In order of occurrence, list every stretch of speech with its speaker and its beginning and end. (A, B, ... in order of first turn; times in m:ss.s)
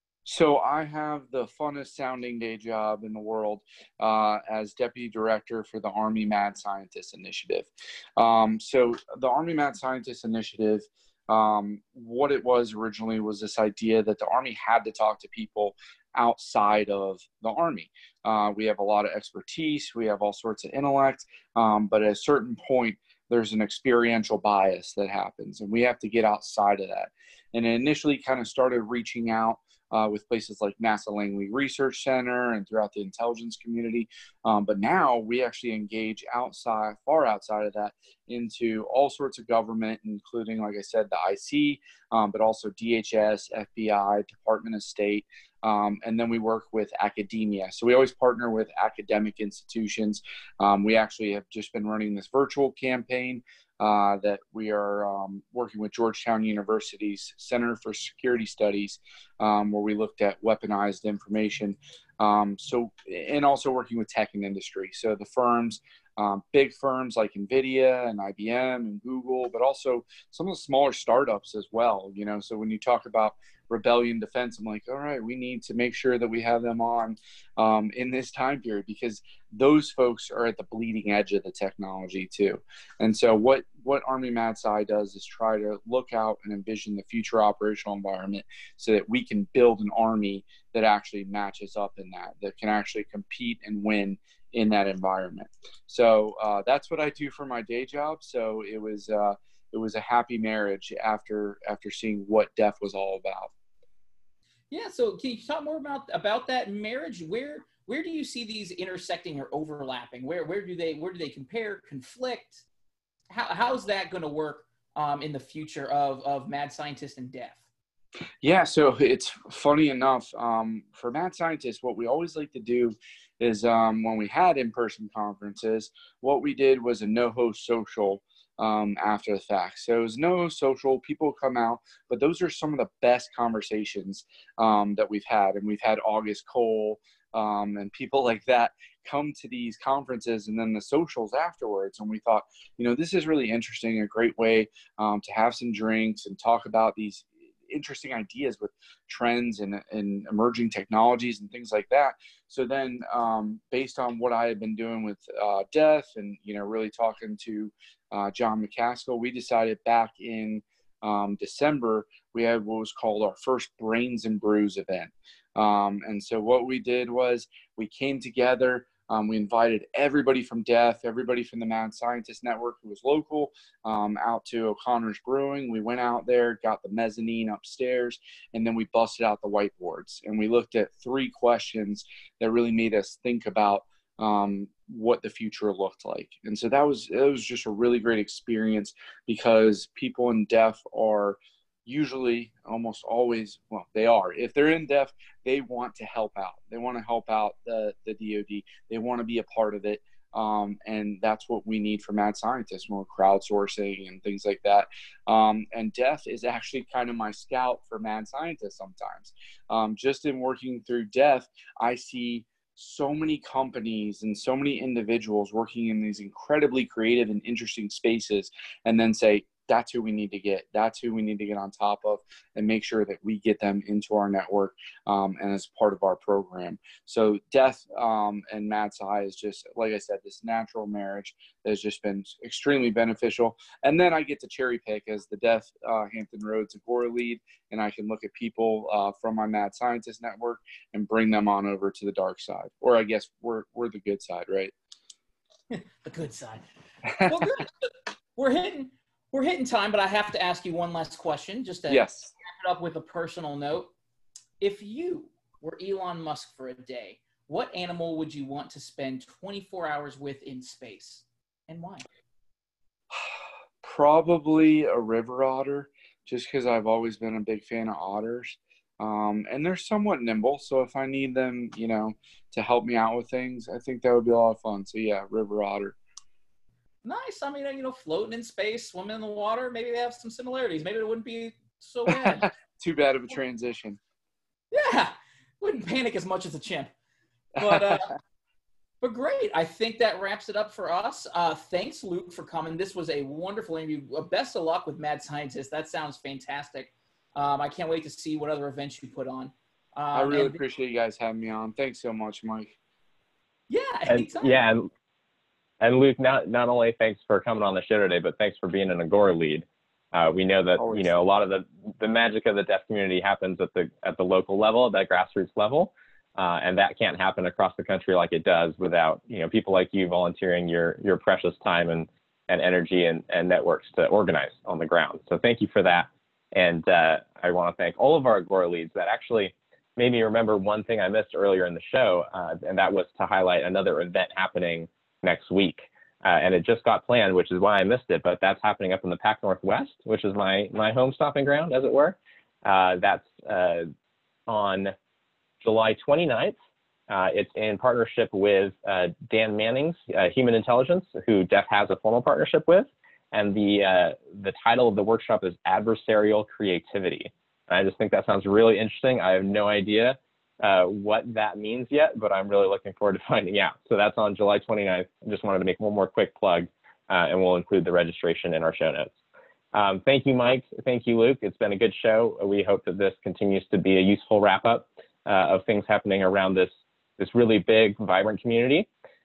0:00.2-1:43.5 A
1:44.7-1:52.6 B
1:53.3-1:57.6 B
1:58.4-4:04.7 A
4:05.7-4:06.6 B
4:07.2-4:13.9 B
4:11.9-4:12.3 A
4:14.6-4:22.0 B
4:23.8-4:36.0 A
4:37.0-4:42.4 B
4:42.1-4:44.0 A
4:44.7-4:46.9 B
4:47.6-4:48.1 B
4:47.6-4:48.0 A
4:49.0-5:00.6 B
5:00.1-5:02.8 A
5:03.7-5:04.6 B
5:04.1-5:04.9 C
5:05.8-5:43.9 C
5:10.8-5:11.1 A
5:44.5-5:44.9 C
5:45.6-5:46.6 C
5:47.1-6:09.1 C
6:09.7-6:18.9 C